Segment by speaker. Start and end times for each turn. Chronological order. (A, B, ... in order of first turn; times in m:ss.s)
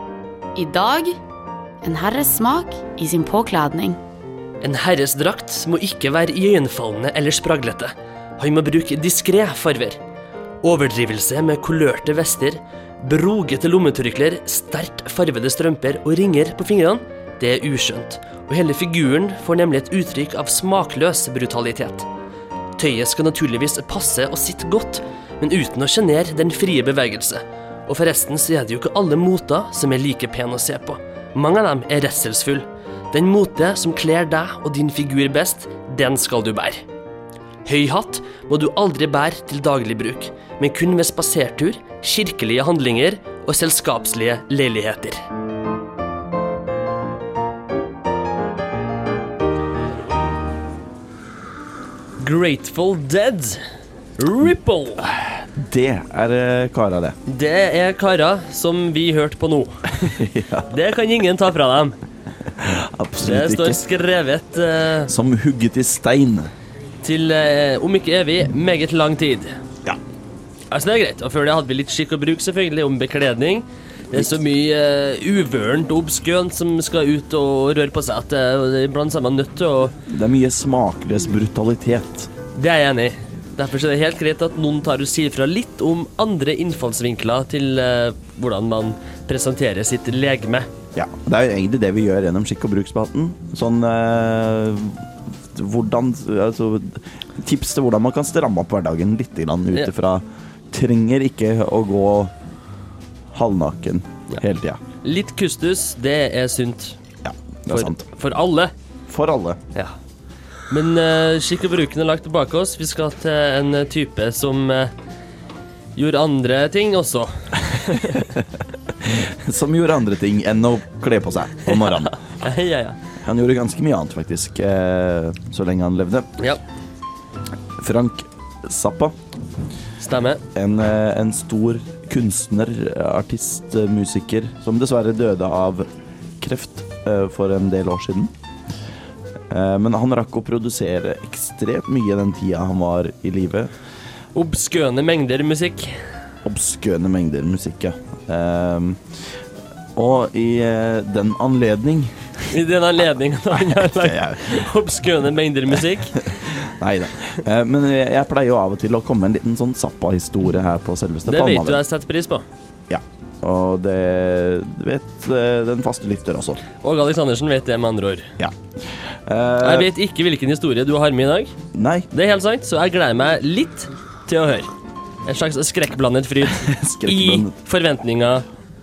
0:00.5-0:01.2 A
0:01.8-0:04.0 A
0:04.6-0:10.0 B
0:10.6-0:22.0 B
0:22.8-0:36.8 B
0:37.6-0:45.2 B
0:52.2-0:53.6 B
0:54.2-0:55.1 B
0:55.5-0:57.2 C
0:57.3-1:00.1 B
1:00.0-1:00.7 C
1:00.7-1:02.0 B
1:02.5-1:03.8 C
1:03.2-1:05.1 B
1:05.1-1:06.5 C
1:07.0-1:09.5 B
1:10.7-1:19.9 B
1:20.1-1:22.3 C
1:22.5-1:30.7 B
1:30.9-1:42.3 C
1:43.3-1:44.8 C
1:45.0-1:47.0 B
1:47.2-1:48.0 C
1:47.7-1:48.7 B
1:49.1-1:49.6 C
1:50.7-1:54.9 B
1:56.0-1:58.3 B
1:59.0-2:02.2 C
2:01.7-2:03.0 B
2:03.2-2:06.3 C
2:07.8-2:09.1 C
2:10.0-2:10.4 B
2:10.5-2:15.9 C
2:16.4-2:18.3 C
2:19.5-2:23.7 C
2:24.3-2:26.0 B
2:26.4-2:29.0 C
2:29.9-2:32.2 C
2:32.5-2:36.3 B
2:33.5-2:34.6 C
2:36.2-2:41.8 C
2:41.3-2:42.4 B
2:42.9-2:46.6 C
2:46.8-2:48.3 B
2:49.3-2:49.9 C
2:49.6-2:51.5 B
2:51.7-2:52.1 C
2:52.1-2:54.7 B
2:55.2-2:58.4 B
2:56.5-2:57.5 C